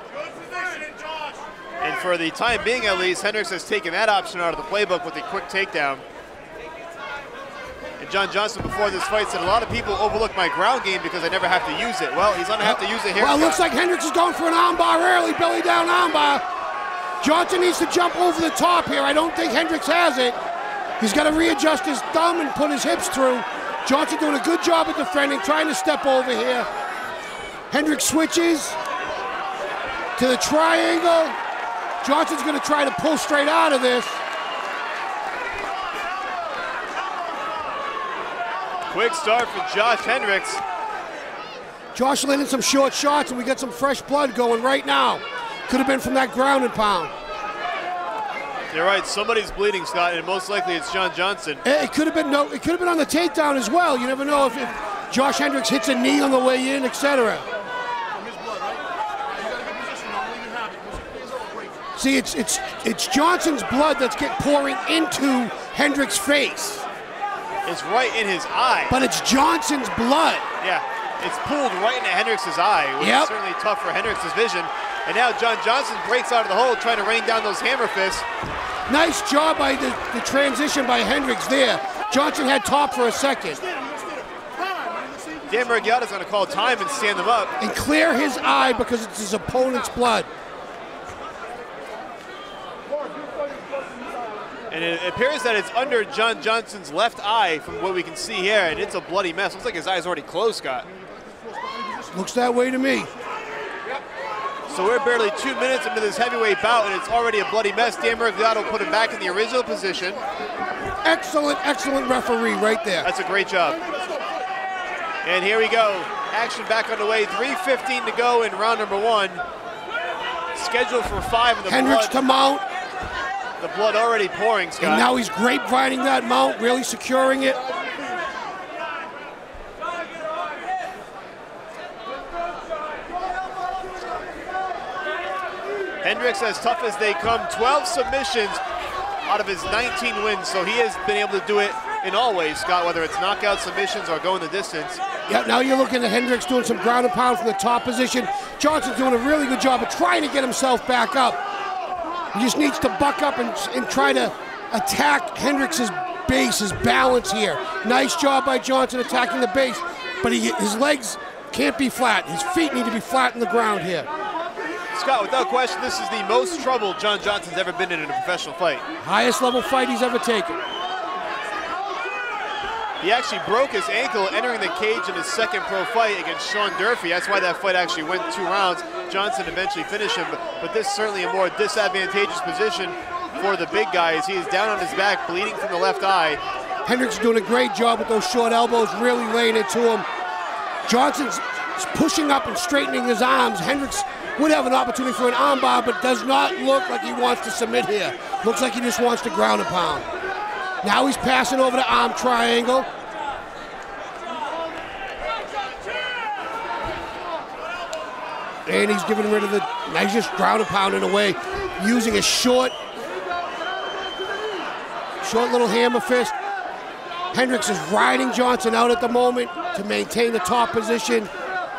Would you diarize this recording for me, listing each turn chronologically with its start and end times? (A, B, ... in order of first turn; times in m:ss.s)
0:01.8-0:06.0 A
0:08.0-0:13.6 A
0:12.6-0:16.4 B
0:17.2-0:20.4 B
0:21.0-0:26.7 B
0:27.7-0:28.8 B
0:30.2-0:31.4 B
0:32.0-0:34.2 B
0:38.9-0:40.6 A
0:41.9-0:47.1 B
0:48.7-0:51.6 A
0:51.6-0:57.4 B
1:02.0-1:06.8 B
1:07.6-1:09.0 A
1:08.9-1:10.5 B
1:10.6-1:18.2 A
1:13.0-1:13.3 B
1:18.9-1:23.6 B
1:25.5-1:27.5 A
1:27.6-1:30.3 B
1:34.7-1:40.9 A
1:42.1-1:43.1 B
1:44.7-1:50.2 A
1:51.0-1:53.1 B
1:53.0-1:53.8 A
1:55.2-1:59.4 A
2:00.5-2:02.2 A
2:01.7-2:02.6 B
2:03.6-2:05.1 A
2:04.8-2:07.6 B
2:16.0-2:18.6 A
2:19.2-2:25.0 A
2:25.3-2:31.4 B
2:32.3-2:44.1 B
2:44.9-2:48.8 A
2:49.0-2:50.6 B
2:53.0-3:06.4 A
3:06.8-3:10.0 B
3:10.8-3:20.0 B
3:20.8-3:22.9 B
3:28.6-3:32.7 B
3:35.2-3:36.3 B
3:37.3-3:41.3 B